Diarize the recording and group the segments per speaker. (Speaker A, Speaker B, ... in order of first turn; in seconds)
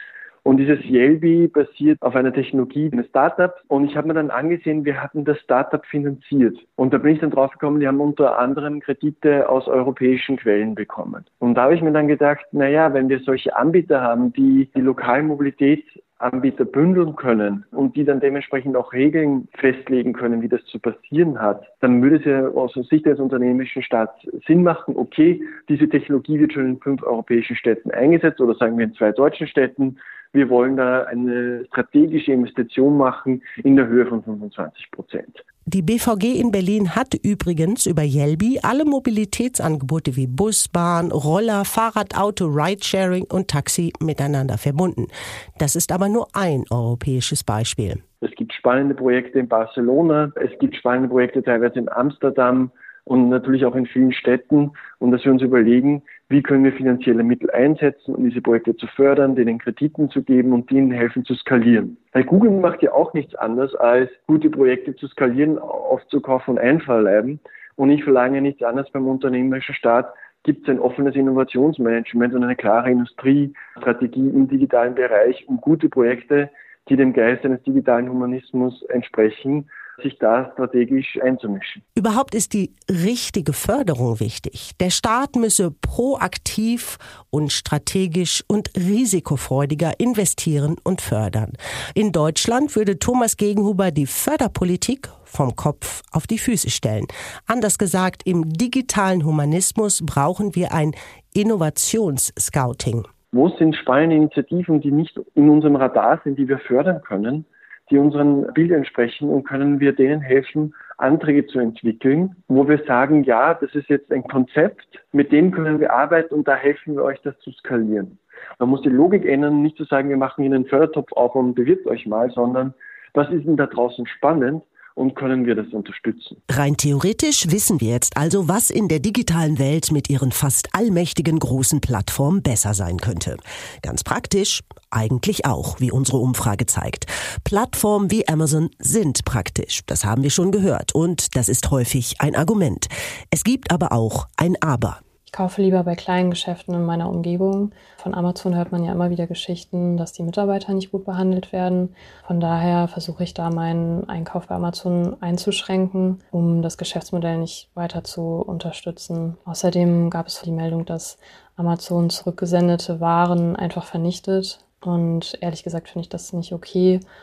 Speaker A: 0.4-35.4, 48.2-81.8, 103.3-126.4
Speaker B: 35.7-48.0, 82.0-103.1, 126.5-145.0
Speaker C: 145.3-167.0